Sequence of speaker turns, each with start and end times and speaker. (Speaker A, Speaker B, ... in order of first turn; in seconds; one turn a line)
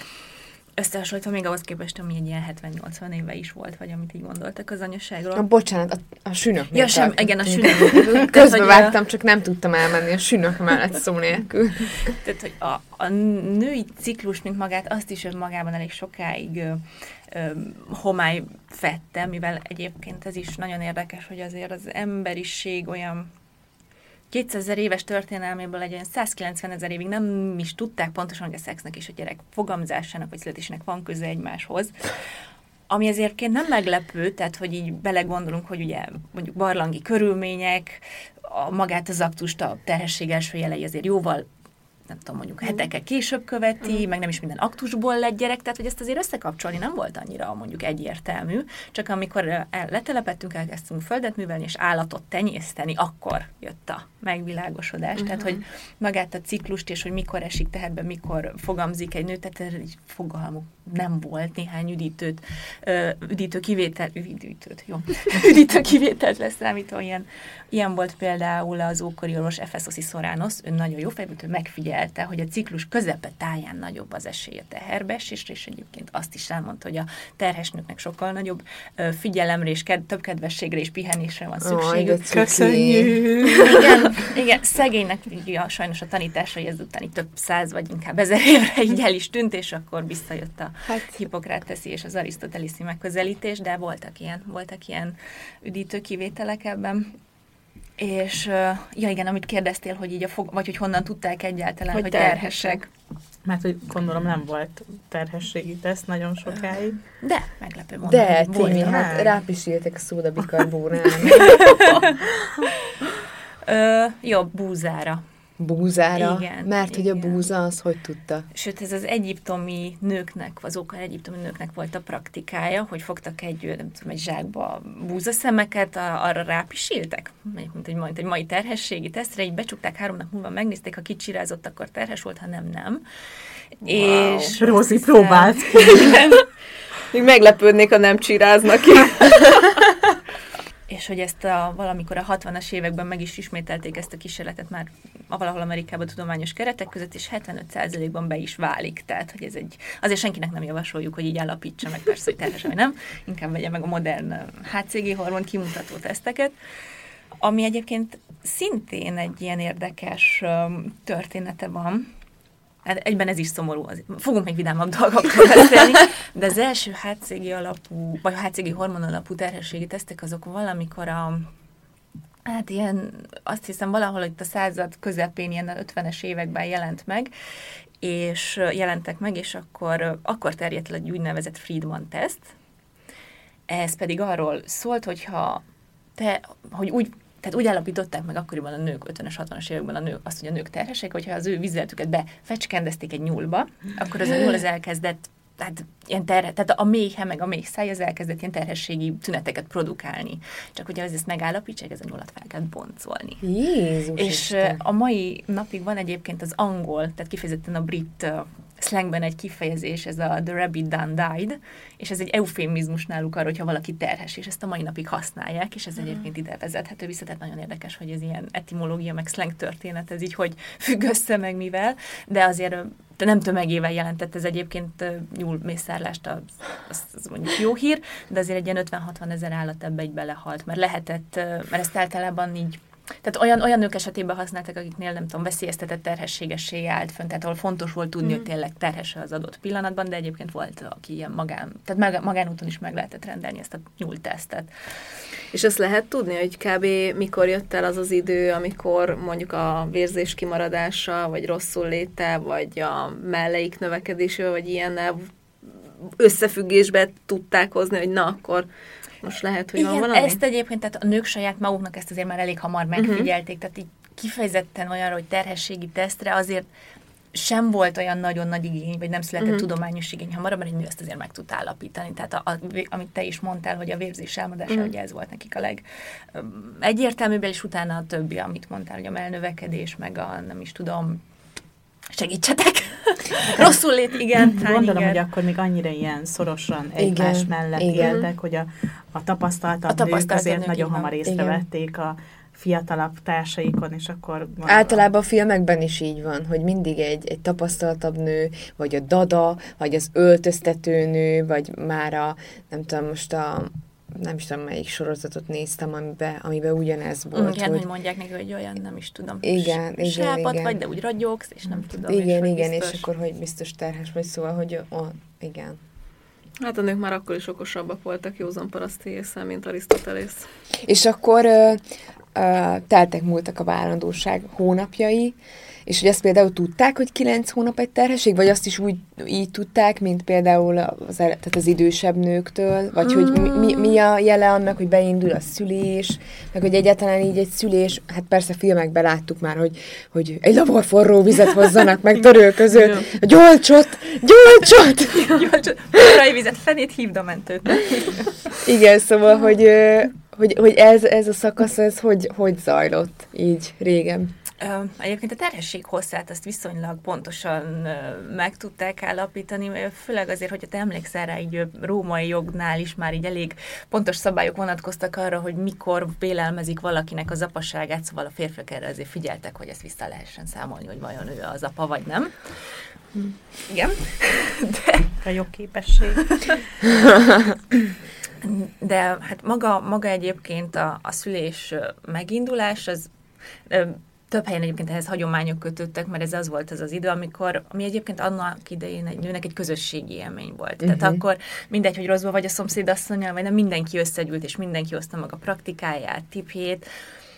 Speaker A: 0.8-5.5
Speaker B: 5.3-12.0
Speaker A: 6.7-9.0
Speaker A: 12.0-23.3
Speaker A: 24.3-31.9
Speaker A: 32.9-41.5
Speaker A: 42.1-82.6
Speaker C: 55.3-55.6
Speaker B: 81.6-83.6
Speaker D: 82.3-82.9
Speaker A: 83.6-97.2
Speaker A: 98.0-102.9
Speaker C: 101.9-102.8
Speaker D: 103.5-107.0
Speaker A: 107.1-109.1
Speaker B: 108.0-111.8
Speaker D: 108.6-109.3
Speaker A: 113.7-115.2
Speaker B: 115.6-118.5
Speaker A: 116.2-117.4
Speaker A: 118.5-133.0
Speaker A: 133.8-136.2
Speaker D: 133.9-136.2
Speaker C: 134.2-134.5
Speaker C: 135.8-136.4
Speaker C: 137.1-139.9
Speaker A: 140.9-156.5
Speaker A: 157.4-162.1
Speaker A: 162.8-171.5
Speaker A: 172.5-177.3
Speaker A: 178.0-182.5
Speaker A: 183.7-185.6
Speaker A: 186.2-203.4
Speaker B: 203.4-204.8
Speaker A: 204.2-244.7
Speaker C: 245.5-255.3
Speaker C: 256.2-258.7
Speaker C: 259.2-260.4
Speaker A: 259.8-266.7
Speaker C: 263.0-263.3
Speaker A: 267.3-281.2
Speaker A: 282.1-285.2
Speaker D: 284.4-295.0
Speaker B: 287.0-288.2
Speaker C: 288.0-288.3
Speaker A: 289.9-291.1
Speaker B: 291.2-291.6
Speaker B: 294.6-307.9
Speaker A: 307.3-313.1
Speaker B: 309.4-310.8
Speaker B: 311.8-315.8
Speaker C: 316.6-320.5
Speaker B: 320.8-321.8
Speaker B: 322.4-345.5
Speaker C: 342.7-343.1
Speaker A: 345.1-348.4
Speaker B: 348.6-354.3
Speaker A: 354.6-372.3
Speaker A: 373.7-375.1
Speaker D: 375.2-376.6
Speaker B: 377.0-377.5
Speaker A: 378.4-383.1
Speaker A: 383.7-396.9
Speaker B: 390.8-391.2